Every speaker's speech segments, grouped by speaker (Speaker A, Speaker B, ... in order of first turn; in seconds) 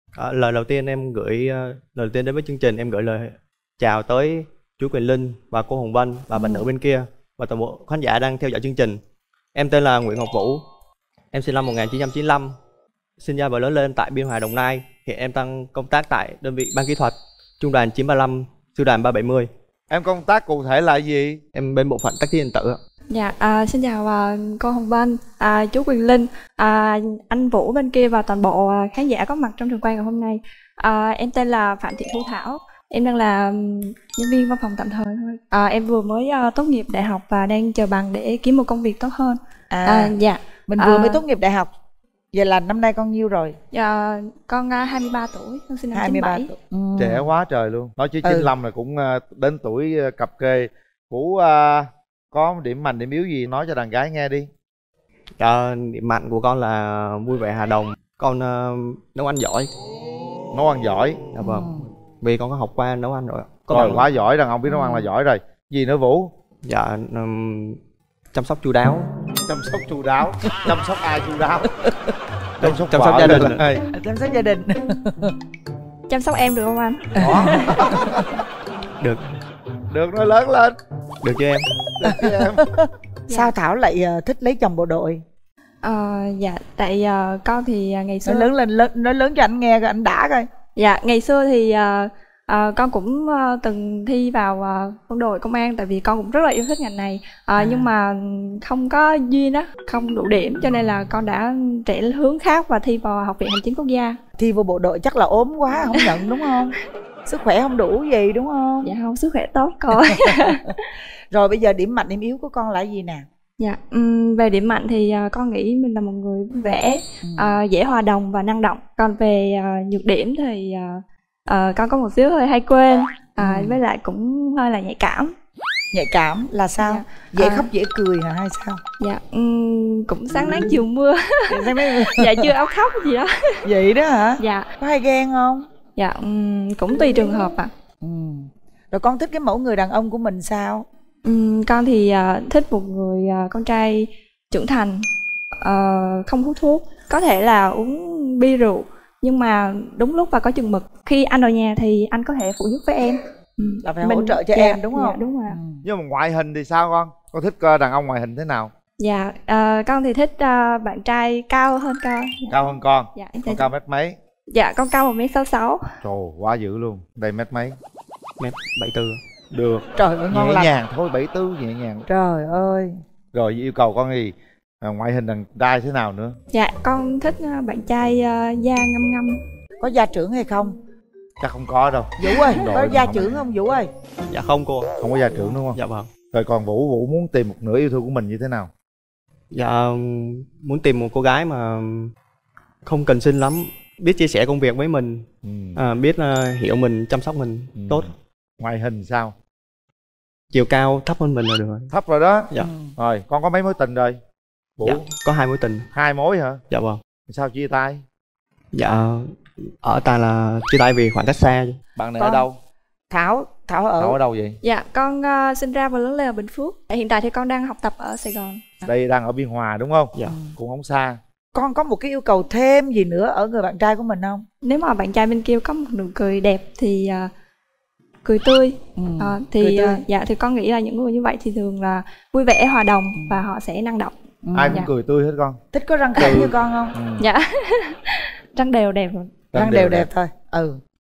Speaker A: 0.1-9.0, 9.6-10.6, 11.3-12.6, 13.2-19.5, 21.6-22.8, 55.4-59.7, 61.3-64.1, 66.6-67.8, 68.3-69.1, 72.6-73.6, 81.2-81.7, 168.4-169.2, 184.3-186.1, 189.5-192.1, 192.8-198.1, 200.5-201.9, 204.8-205.9, 206.7-207.0, 208.7-211.8
Speaker B: 19.9-21.4, 47.0-54.5, 60.5-61.2, 63.7-66.3, 69.5-71.7, 72.6-73.8, 77.2-78.2, 79.9-80.8, 82.0-82.6, 155.8-158.7, 162.5-164.2, 166.0-167.8, 169.5-172.1, 173.3-176.4, 181.4-183.4, 185.0-185.8, 186.3-188.7, 195.4-195.8, 197.8-198.1, 198.6-199.3, 201.9-204.2, 205.9-206.6, 207.2-208.0, 212.0-212.6, 214.0-214.6, 218.9-221.2, 234.5-235.6, 236.2-237.3, 239.5-240.1
Speaker C: 23.1-41.2, 43.7-46.5, 76.1-77.8, 85.8-88.5, 90.8-104.2, 108.8-110.8, 113.6-125.3, 126.8-127.7, 129.0-133.6, 134.4-134.7, 135.9-137.7, 141.2-145.1, 145.6-155.6, 159.0-162.6, 163.1-163.7, 164.5-165.9, 176.5-179.4, 214.6-218.6, 224.6-227.3, 228.2-234.1, 237.2-239.4
Speaker D: 39.7-40.1, 40.7-41.7, 42.3-43.5, 45.9-47.3, 48.2-48.5, 61.4-61.8, 64.7-65.0, 73.9-75.3, 77.2-78.2, 82.0-82.7, 83.3-85.2, 88.2-90.5, 97.6-97.9, 104.4-106.7, 107.3-108.9, 110.0-110.5, 111.3-113.2, 117.2-117.5, 123.4-123.8, 125.9-128.8, 130.3-130.7, 131.5-132.5, 133.6-135.7, 138.0-140.9, 153.8-155.8, 170.0-170.7, 172.1-173.0, 179.8-180.8, 182.2-183.9, 202.6-202.9, 212.2-212.4, 213.1-214.2, 221.5-224.4, 229.0-230.0, 234.4-234.8, 235.7-236.9, 239.6-240.8